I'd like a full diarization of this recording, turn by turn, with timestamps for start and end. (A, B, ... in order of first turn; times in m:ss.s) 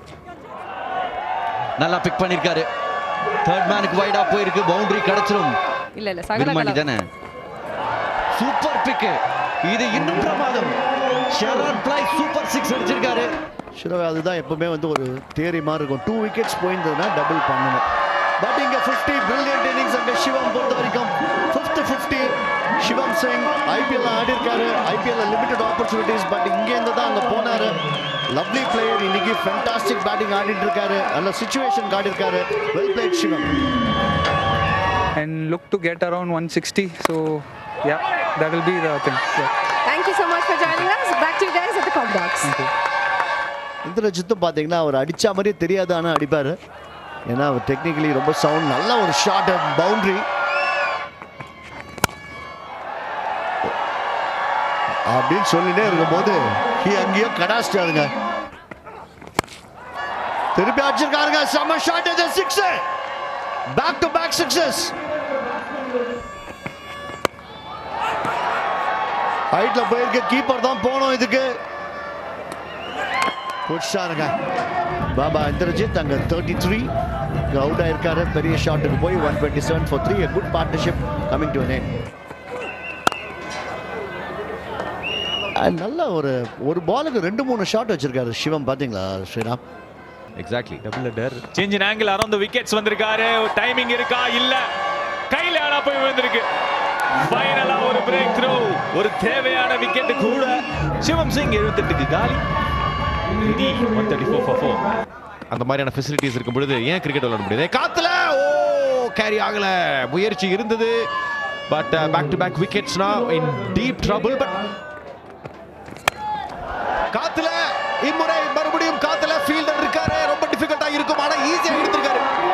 0:01.8-0:02.6 A
0:03.4-0:05.5 A
0:06.0-0:06.8 B
0:06.3-0:07.0 A
0:08.4-0:10.8 A
0:11.3-0:13.3 A
0:13.8-0:17.8 C
0:18.4-0:22.3 C
0:22.8-0:27.8 C
0:28.3-0:33.5 C
0:35.2-0:39.5 D
0:39.9-0:42.5 B
0:43.8-0:46.6 C
0:47.3-0:50.2 C
0:55.1-0:58.1 C
1:00.5-1:02.8 C
1:03.7-1:04.9 C
1:09.5-1:11.5 C
1:13.7-1:14.3 C
1:15.1-1:16.9 C
1:17.5-1:21.9 C
1:25.6-1:29.6 C
1:30.4-1:30.8 E
1:30.8-1:34.6 F
1:35.3-1:36.5 F
1:37.2-1:42.4 F
1:43.4-1:44.8 F
1:45.5-1:51.0 E
1:51.7-1:54.6 E
1:57.1-2:02.2 E